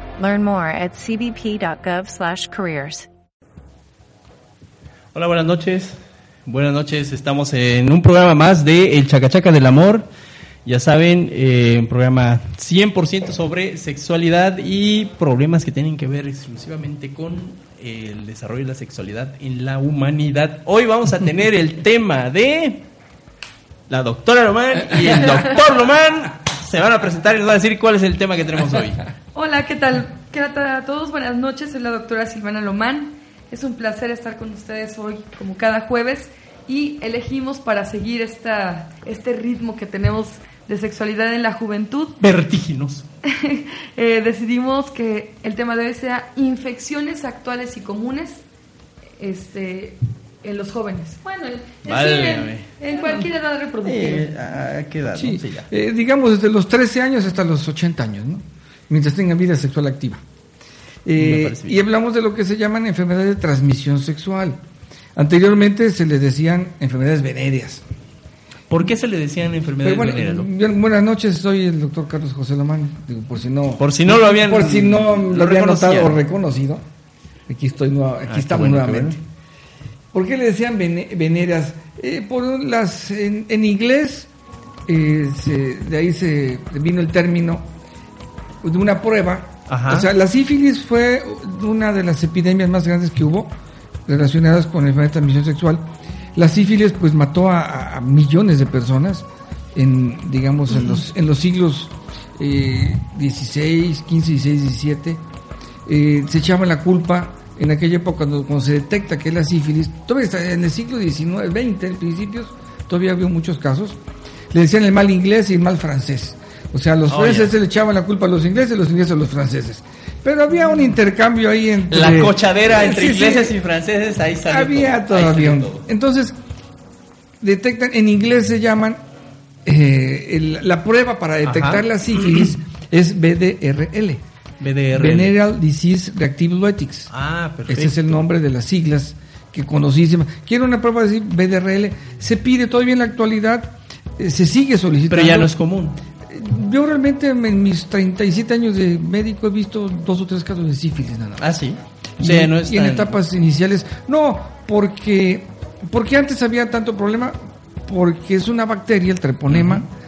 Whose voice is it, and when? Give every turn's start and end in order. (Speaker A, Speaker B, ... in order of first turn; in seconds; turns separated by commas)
Speaker A: 0.2-3.1, Speaker B: 5.1-10.1, Speaker B: 10.7-22.8, Speaker B: 23.9-29.0, Speaker C: 29.4-42.2, Speaker B: 42.2-43.1, Speaker C: 43.2-48.4, Speaker C: 49.2-54.3, Speaker B: 51.9-53.3, Speaker B: 53.8-55.7, Speaker D: 55.1-60.2, Speaker D: 61.0-64.6, Speaker B: 61.2-61.8, Speaker D: 65.2-67.8, Speaker B: 68.7-70.5, Speaker D: 69.8-76.8, Speaker B: 73.8-76.2, Speaker D: 77.5-79.2, Speaker B: 78.3-79.2, Speaker D: 80.1-84.3, Speaker D: 84.9-87.7, Speaker D: 88.6-93.5, Speaker B: 89.7-90.1, Speaker D: 94.1-95.8, Speaker D: 96.3-105.2, Speaker D: 105.9-114.0, Speaker D: 114.5-123.6, Speaker B: 117.1-117.5, Speaker B: 121.9-125.8, Speaker D: 124.5-126.4, Speaker D: 127.4-129.0, Speaker D: 129.7-134.2, Speaker B: 131.4-131.9, Speaker B: 134.6-135.3, Speaker D: 134.9-137.1, Speaker B: 137.1-138.2, Speaker D: 137.7-145.5, Speaker B: 145.1-146.0, Speaker D: 146.3-151.6, Speaker B: 151.4-153.2, Speaker D: 152.2-159.9, Speaker B: 159.5-159.8